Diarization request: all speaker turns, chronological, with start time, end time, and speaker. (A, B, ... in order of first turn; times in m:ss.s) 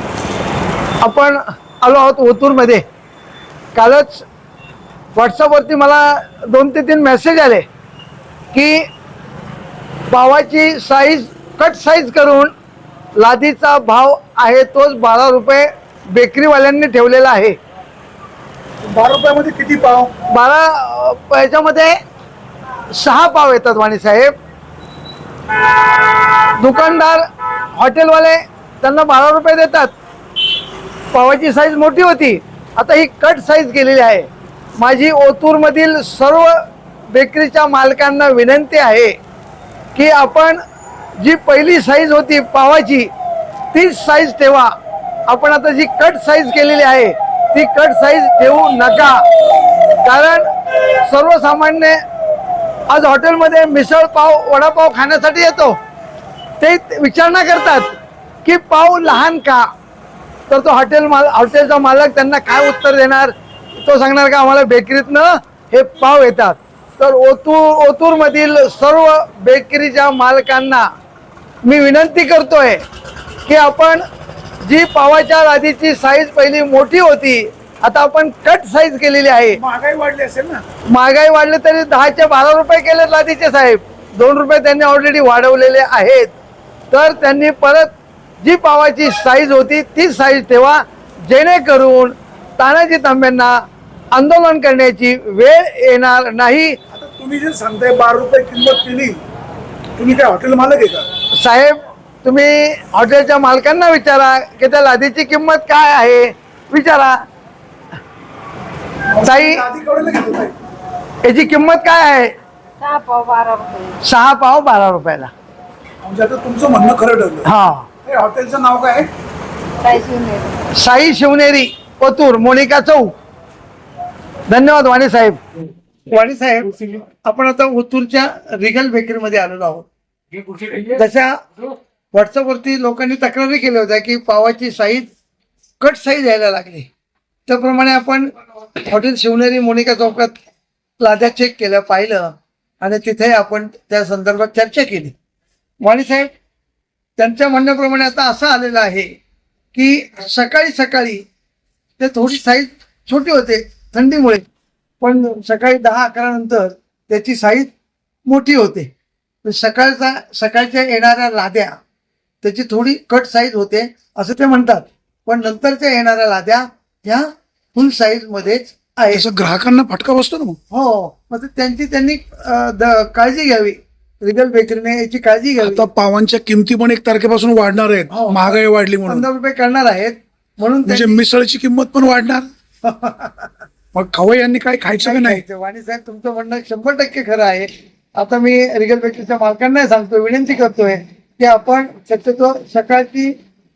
0:01.0-0:02.8 A
0:03.8-0:04.2 A
0:05.2-0:07.7 A
0:08.5-0:08.9 A
0:10.1-0:12.5 A
0:13.2-0:17.6 A
0:18.9-0:20.1 B
0:20.3-0:21.9 A
0:22.9-0:24.3 A
0:26.6-0:29.9 A
0:31.1-0:39.2 A
0:40.0-0:40.6 A
0:41.2-0:43.1 A
0:43.7-0:44.7 A
0:45.3-0:49.2 A
0:50.0-0:50.4 A
0:51.0-0:52.0 A
0:52.9-0:55.8 A
0:56.6-0:59.7 A
1:00.5-1:10.9 A
1:11.6-1:12.8 A
1:13.4-1:14.0 A
1:14.6-1:19.6 A
1:19.6-1:20.6 B
1:20.9-1:26.3 A
1:26.9-1:33.6 A
1:34.1-1:36.8 A
1:36.9-1:39.2 B
1:40.0-1:41.1 B
1:41.3-1:47.2 A
1:49.1-1:50.6 B
1:49.2-1:49.7 A
1:51.2-1:52.3 A
1:52.8-1:54.0 C
1:54.0-1:55.3 A
1:56.0-1:57.5 B
1:57.4-1:57.9 A
1:58.0-1:59.1 B
1:59.8-2:00.6 C
2:00.7-2:03.1 A
2:04.5-2:05.4 A
2:06.1-2:09.9 A
2:10.8-2:15.1 A
2:15.8-2:16.9 A
2:17.5-2:20.4 A
2:21.0-2:25.2 A
2:25.8-2:26.3 A
2:27.2-2:29.1 A
2:29.7-2:31.2 A
2:32.0-2:34.4 A
2:35.0-2:37.7 A
2:38.3-2:38.9 A
2:39.4-2:41.8 A
2:42.4-2:49.3 A
2:49.1-2:50.6 B
2:50.7-2:55.8 A
2:55.6-2:59.3 B
2:58.1-3:01.2 A
3:00.9-3:02.5 B
3:02.8-3:03.5 A
3:03.9-3:05.4 B
3:05.0-3:13.4 A